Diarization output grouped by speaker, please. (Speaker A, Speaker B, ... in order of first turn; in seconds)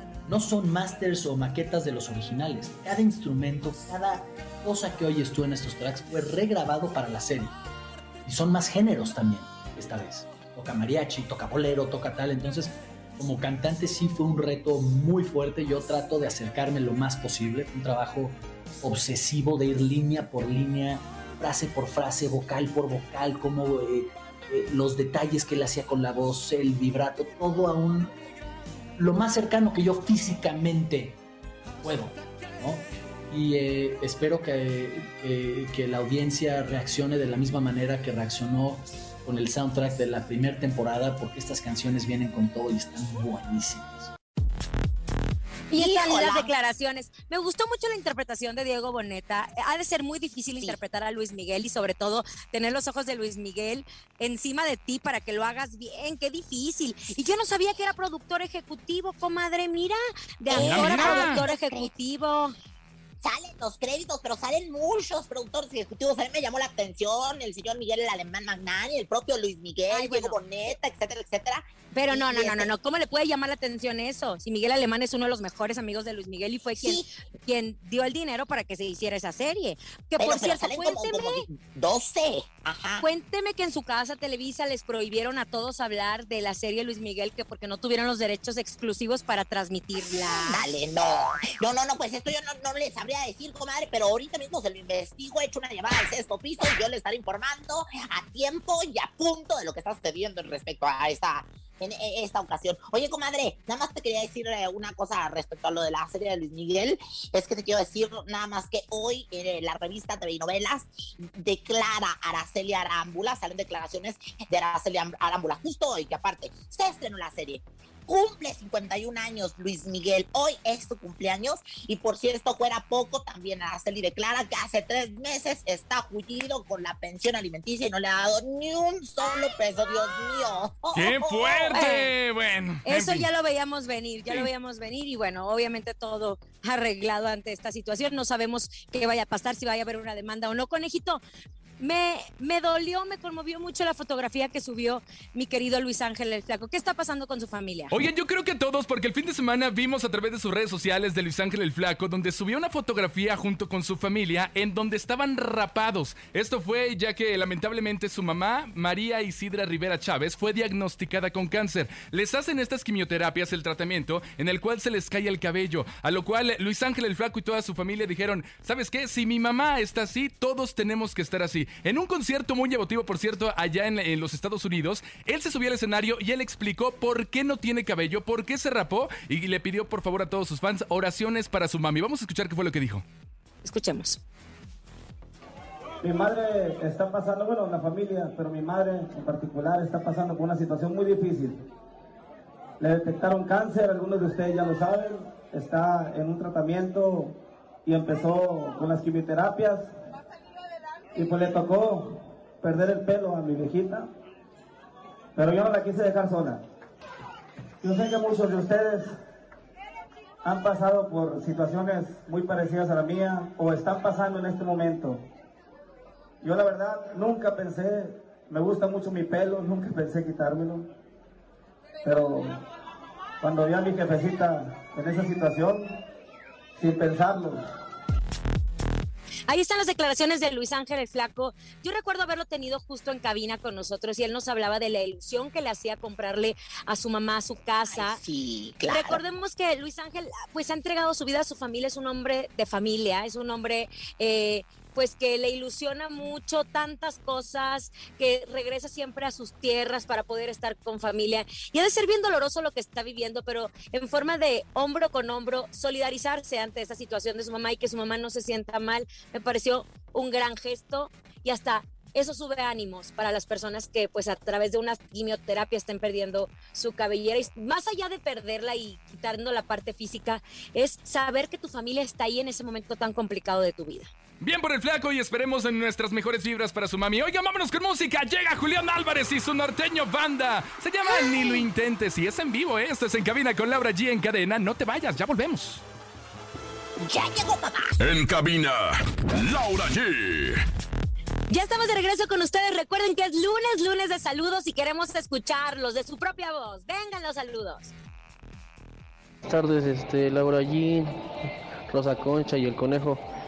Speaker A: 0.3-7.6, 8.2-28.1, 29.0-31.2, 31.8-44.1
Speaker B: 45.7-62.5, 69.9-70.4, 71.9-81.4, 83.0-90.6, 131.7-132.1, 132.8-141.2, 141.8-147.9, 183.6-184.2, 229.5-238.2, 238.9-274.1, 291.5-297.9
Speaker C: 45.7-46.5, 60.5-61.9, 63.2-72.7, 76.8-77.1, 80.2-83.0, 90.1-131.9, 237.9-239.2, 287.0-287.9
Speaker D: 60.5-61.4, 130.9-133.3, 147.9-183.1, 274.4-285.8
Speaker E: 186.0-191.7, 192.8-199.9, 201.2-204.1, 205.4-206.6, 207.8-209.1, 210.4-215.2, 216.4-220.9, 222.0-222.6, 223.4-226.0, 226.8-227.6
Speaker F: 288.0-290.6
Speaker G: 299.4-301.2, 301.9-303.2